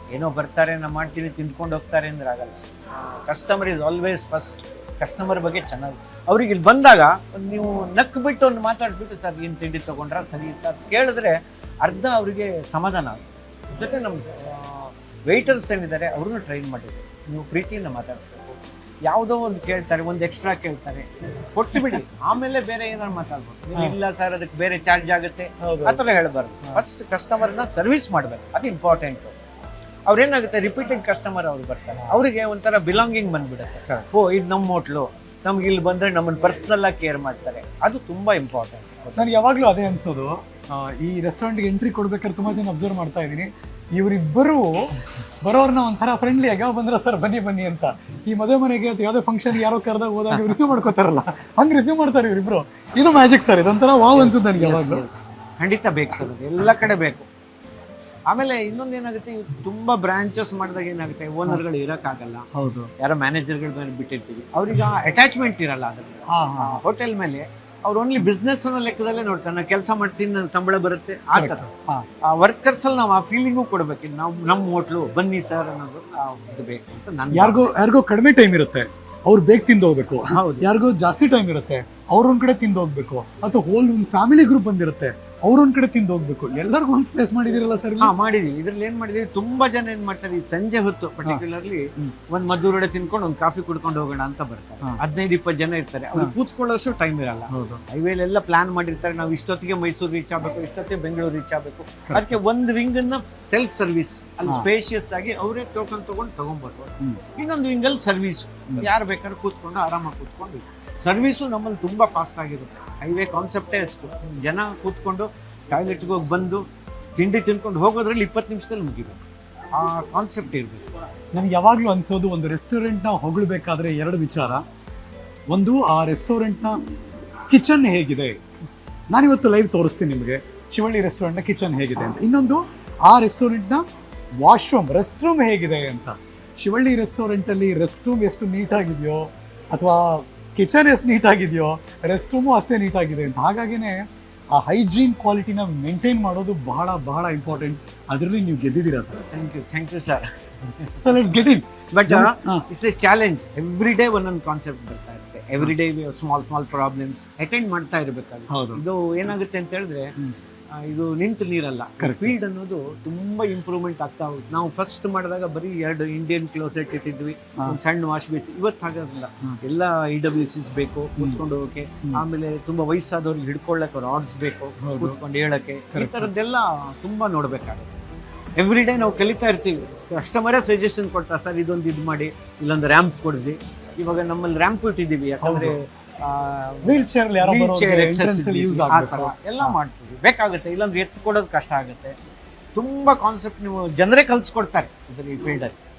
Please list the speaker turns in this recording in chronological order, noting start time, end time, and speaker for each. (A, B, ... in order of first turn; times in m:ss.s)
0:00.1-0:29.3 A
0:25.6-0:26.0 B
0:30.1-0:39.4 A
0:39.2-0:55.0 B
0:54.1-0:57.3 A
0:58.3-1:02.5 A
1:02.5-1:02.9 B
1:03.0-1:11.7 A
1:06.3-1:06.8 B
1:11.3-1:12.0 B
1:12.2-1:17.7 A
1:17.3-1:28.1 B
1:20.3-1:20.7 A
1:28.0-1:56.6 A
1:37.5-1:37.8 B
1:42.1-1:42.4 B
1:57.2-1:59.2 A
1:59.7-2:00.9 A
2:01.3-2:04.6 B
2:05.5-2:06.8 B
2:07.5-2:08.4 B
2:09.1-2:13.9 B
2:14.4-2:29.2 B
2:29.3-2:31.2 A
2:31.0-2:32.6 B
2:31.9-2:40.1 A
2:38.5-2:38.8 B
2:40.7-2:58.0 A
2:42.0-2:42.4 B
2:54.8-2:55.2 B
2:55.9-2:56.3 B
2:58.6-3:12.1 A
3:05.4-3:05.8 B
3:06.8-3:09.8 B
3:12.8-3:15.8 A